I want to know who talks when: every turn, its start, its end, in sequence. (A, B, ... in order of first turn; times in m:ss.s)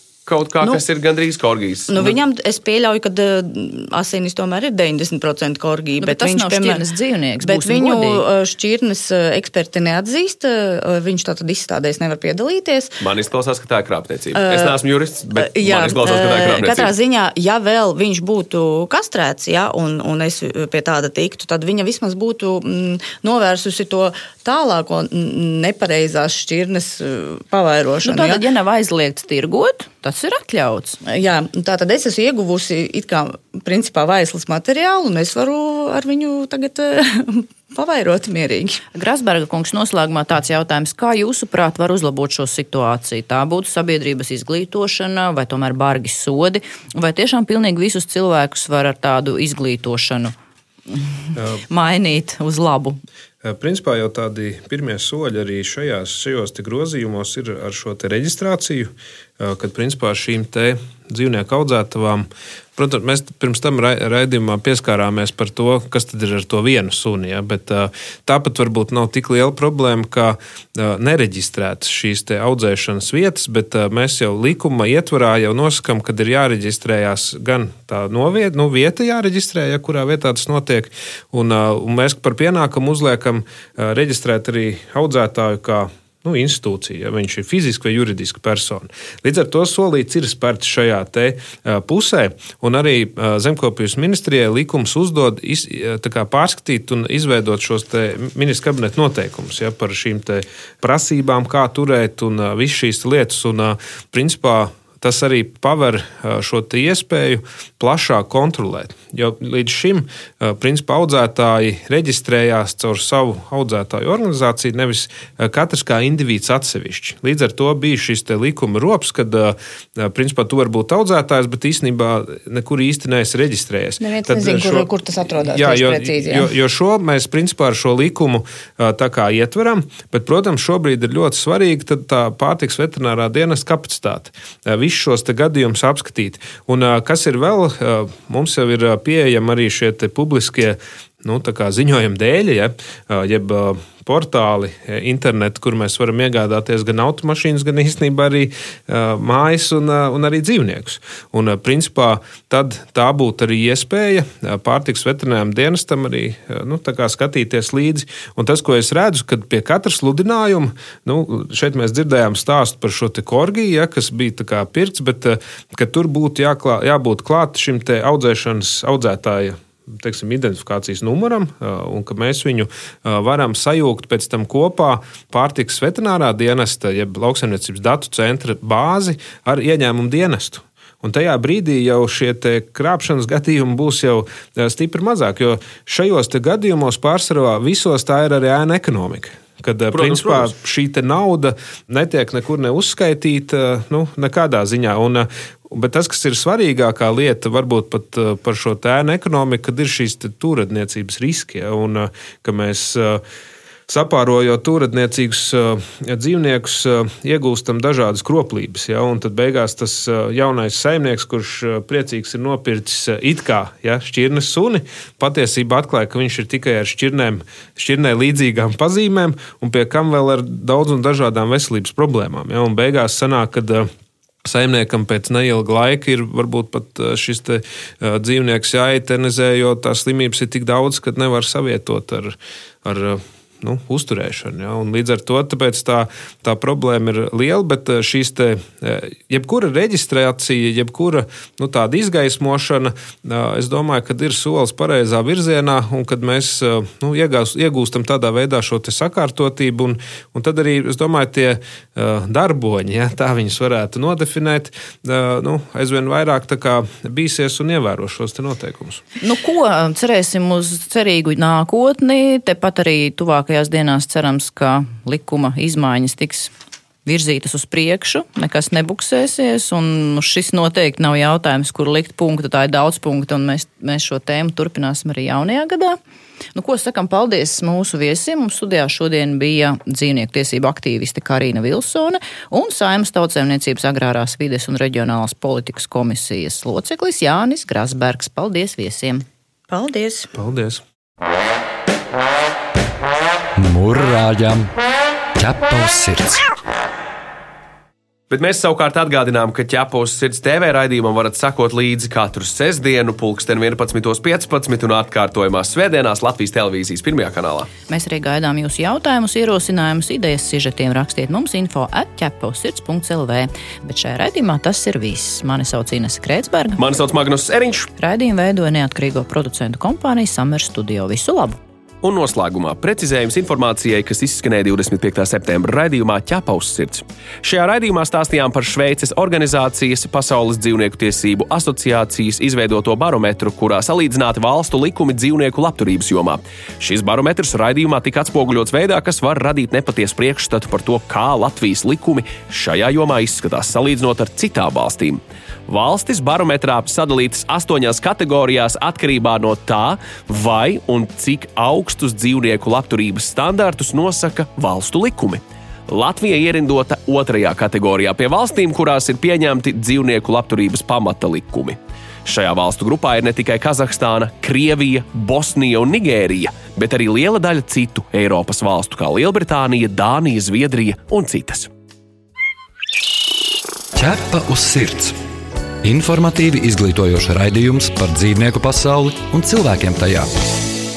0:00.3-0:02.2 A
0:01.9-0:06.8 B
0:06.0-0:08.3 C
0:07.4-0:13.0 B
0:13.0-0:16.9 A
0:14.3-0:14.8 B
0:15.3-0:28.4 B
0:28.0-0:31.0 C
0:31.0-0:38.8 B
0:38.9-0:50.3 C
0:51.4-0:51.6 D
0:51.7-0:53.0 C
0:53.4-2:04.9 D
2:04.0-2:06.5 B
2:05.4-3:23.2 D
3:09.9-3:10.5 A
3:23.9-3:43.9 D
3:44.4-4:19.0 D
4:19.2-4:26.5 C
4:27.0-4:36.0 C
4:36.6-4:49.2 C
4:49.7-4:50.3 B
4:50.4-4:50.8 D
4:53.6-4:54.7 E
4:55.4-4:56.4 E
4:58.3-5:07.7 A
5:07.9-5:16.8 C
5:16.8-5:17.9 A
5:18.0-5:21.6 C
5:22.0-6:11.7 A
6:14.0-6:15.2 E
6:15.8-6:20.3 E